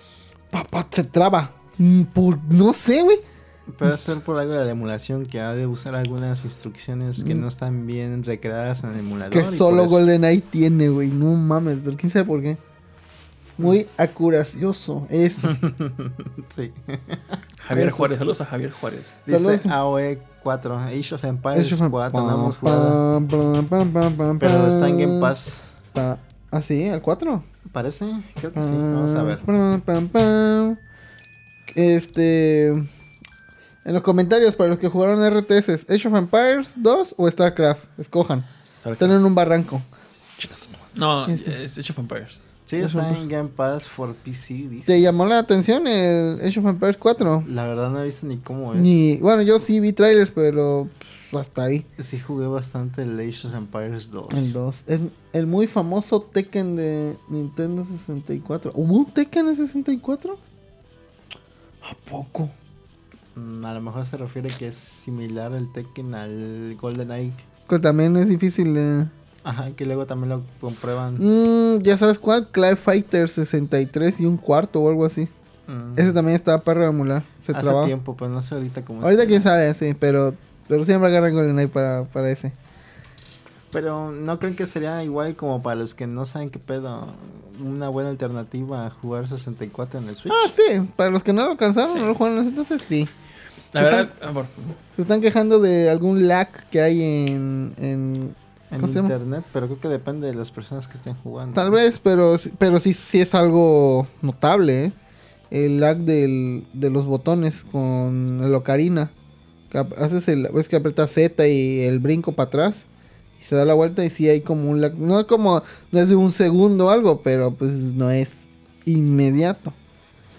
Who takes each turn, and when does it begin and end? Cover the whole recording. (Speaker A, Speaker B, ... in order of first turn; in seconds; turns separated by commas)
Speaker A: 0.5-3.2, Speaker B: 3.7-10.1, Speaker A: 7.2-7.5, Speaker A: 9.3-12.6, Speaker A: 13.6-15.6, Speaker B: 15.4-17.4, Speaker C: 17.6-19.2, Speaker A: 17.7-18.2, Speaker B: 19.2-23.0, Speaker A: 19.3-19.7, Speaker A: 21.5-25.3, Speaker B: 24.4-25.7, Speaker A: 25.9-27.4, Speaker B: 27.7-29.4, Speaker A: 28.5-30.8, Speaker A: 31.7-32.9, Speaker A: 33.8-38.5, Speaker C: 38.8-39.2, Speaker A: 39.0-39.9, Speaker A: 40.4-41.6, Speaker C: 40.9-42.4, Speaker B: 42.7-45.1, Speaker A: 42.8-43.2, Speaker A: 44.9-47.5, Speaker B: 47.4-48.9, Speaker A: 48.7-51.9, Speaker B: 52.0-54.5, Speaker A: 54.3-60.4, Speaker A: 61.8-62.5, Speaker B: 63.3-67.4, Speaker A: 67.7-69.1, Speaker B: 69.4-71.2, Speaker A: 71.2-75.3, Speaker B: 75.7-76.2, Speaker A: 76.0-77.9, Speaker B: 77.5-79.5, Speaker A: 79.0-82.5, Speaker B: 83.7-90.5, Speaker A: 90.3-93.1, Speaker C: 91.9-92.2, Speaker C: 93.7-94.8, Speaker A: 93.7-94.1, Speaker A: 94.9-99.1, Speaker B: 98.7-101.8, Speaker A: 101.5-104.9, Speaker A: 105.5-109.1, Speaker A: 109.7-112.8, Speaker A: 113.4-119.8